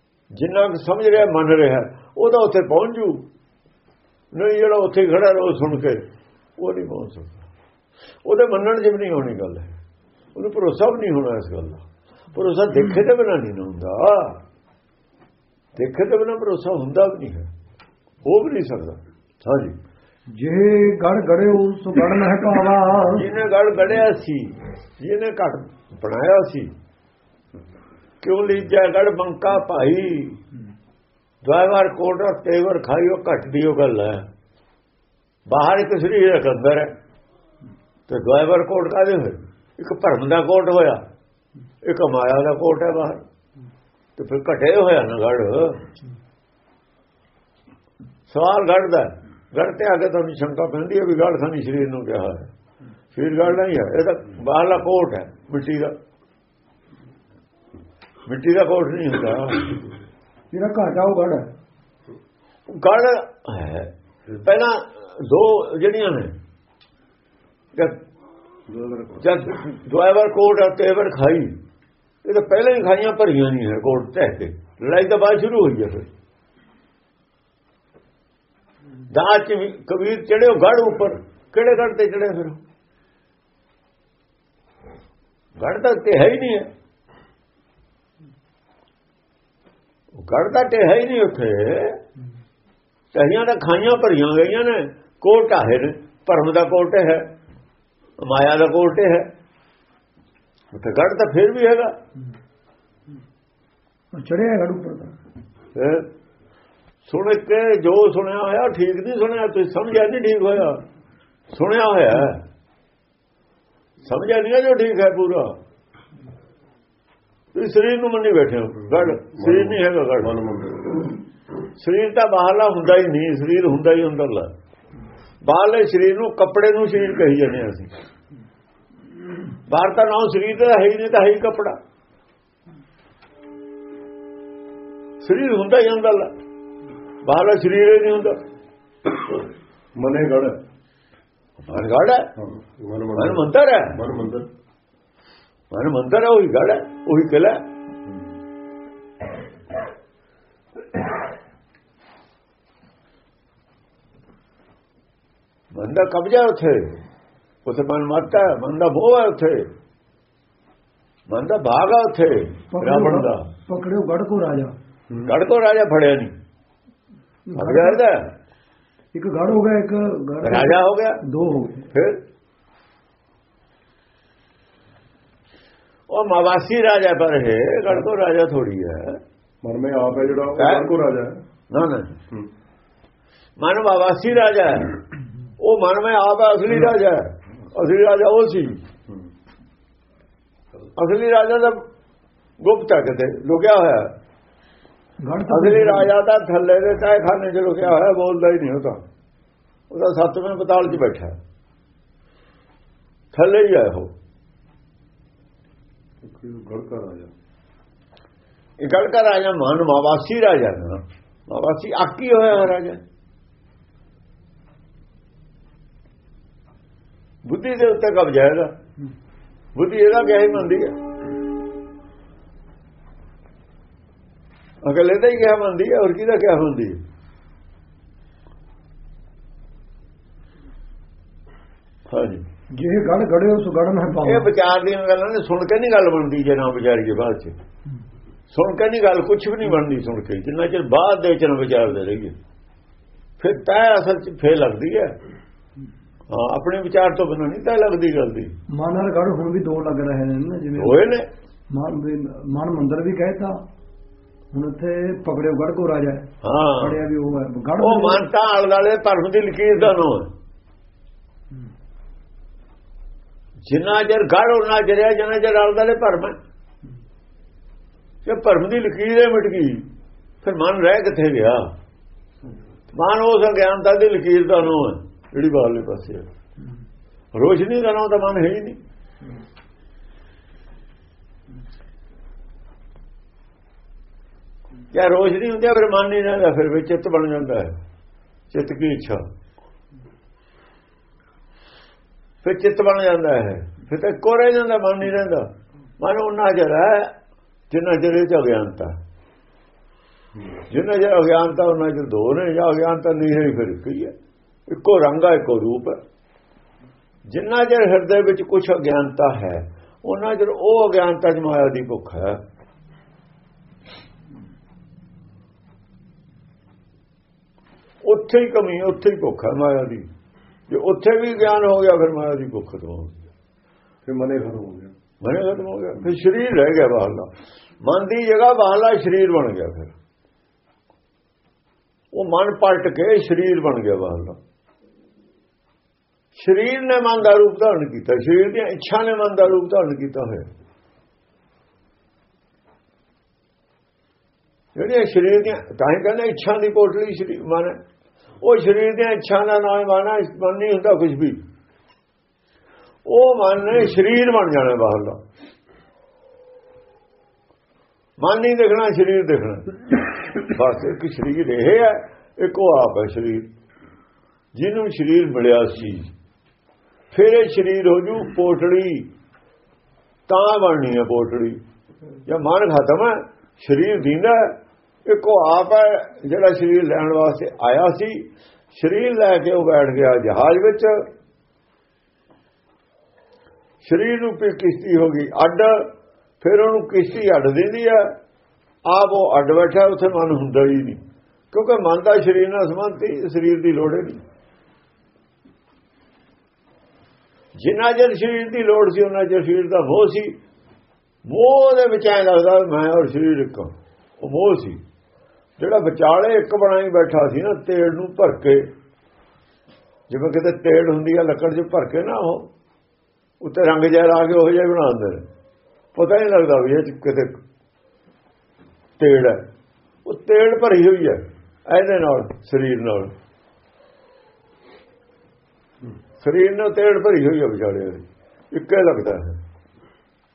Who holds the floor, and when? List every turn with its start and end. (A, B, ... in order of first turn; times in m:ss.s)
0:00.4-0:03.2 A
0:04.3-0:06.0 A
0:06.6-0:07.4 A
0:08.2-0:09.7 A
0:10.4-0:11.8 A
0:12.3-0:14.4 A
0:15.8-0:17.5 A
0:18.2-0:19.8 A
0:20.4-0:23.2 B
0:23.1-0:26.7 A
0:28.2-0:30.4 A
0:31.4-0:34.3 A
0:35.5-0:36.9 A
0:38.1-0:41.0 A
0:41.8-0:43.2 A
0:44.2-0:45.8 A
0:48.3-0:52.5 A
0:53.1-0:55.9 A
0:58.3-0:59.8 A
1:00.5-1:01.5 B
1:02.7-1:06.3 A
1:08.7-1:09.2 C
1:09.2-1:11.5 A
1:12.2-1:16.1 A
1:19.1-1:22.6 A
1:25.6-1:26.7 A
1:30.2-1:32.0 A
1:33.1-1:37.3 A
1:38.2-1:39.3 A
1:40.7-1:41.9 A
1:44.1-1:45.1 B
1:45.8-1:46.0 A
1:47.1-1:50.8 A
1:51.5-1:52.4 A
1:54.0-1:55.6 A
1:57.5-2:00.4 A
1:59.2-2:01.0 C
2:01.8-2:04.5 A
2:05.4-2:07.9 A
2:09.7-2:11.8 A
2:15.2-2:16.3 A
2:17.2-2:18.4 A
2:20.0-2:20.6 C
2:21.7-2:22.3 A
2:22.4-2:24.5 C
2:23.2-2:24.0 A
2:25.7-2:27.6 A
2:35.7-2:37.0 A
2:37.7-2:39.7 A
2:41.3-2:43.5 A
2:42.7-2:44.7 B
2:45.2-2:46.3 A
2:47.5-2:48.0 B
2:47.6-2:48.3 A
2:49.1-2:51.9 B
2:50.4-2:51.2 A
2:51.9-2:52.2 A
2:56.1-2:59.2 A
2:59.6-3:01.4 C
3:00.6-3:00.9 A
3:01.7-3:02.1 A
3:03.6-3:05.0 A
3:05.6-3:08.8 A
3:11.0-3:11.8 A
3:12.6-3:14.1 A
3:15.2-3:16.1 B
3:15.5-3:19.0 A
3:19.9-3:21.4 A
3:23.3-3:24.1 A
3:26.2-3:27.3 C
3:28.8-3:33.0 A
3:37.5-3:38.7 A
3:39.8-3:40.9 A
3:44.8-3:47.0 A
3:52.1-3:52.4 A
3:52.8-3:54.5 B
3:54.2-3:57.6 A
3:58.5-4:02.4 A
4:03.4-4:05.1 A
4:06.3-4:08.5 A
4:08.7-4:11.1 B
4:10.8-4:11.3 A
4:11.7-4:13.6 B
4:14.5-4:16.3 B
4:16.4-4:17.0 A
4:16.8-4:18.2 B
4:17.8-4:20.3 A
4:23.7-4:26.4 A
4:28.2-4:29.9 A
4:30.4-4:31.7 A
4:32.9-4:36.2 A
4:37.3-4:38.8 A
4:44.9-4:47.8 A
4:48.5-4:49.2 A
4:52.4-4:55.5 A
4:56.0-4:57.1 A
4:57.7-4:59.0 A
5:00.7-5:04.1 A
5:04.7-5:06.0 A
5:07.3-5:12.4 A
5:18.0-5:20.1 A
5:20.7-5:23.2 A
5:24.1-5:24.9 C
5:25.2-5:27.3 A
5:27.8-5:29.9 A
5:32.1-5:34.4 A
5:36.4-5:40.5 A
5:44.8-5:47.8 A
5:48.4-5:51.4 A
5:53.1-5:55.2 A
5:58.2-6:03.4 A
6:04.5-6:06.1 A
6:07.1-6:09.1 A
6:10.3-6:11.6 A
6:12.3-6:14.6 A
6:15.1-6:21.0 A
6:23.8-6:25.8 A
6:26.4-6:28.1 A
6:28.9-6:31.0 A
6:31.5-6:34.2 A
6:37.6-6:40.4 A
6:41.3-6:44.8 A
6:45.6-6:48.7 A
6:50.1-6:52.5 A
6:53.4-6:55.2 A
6:56.0-6:57.4 A
6:59.0-6:59.4 A
7:00.0-7:03.1 A
7:06.2-7:08.0 A
7:08.5-7:09.4 A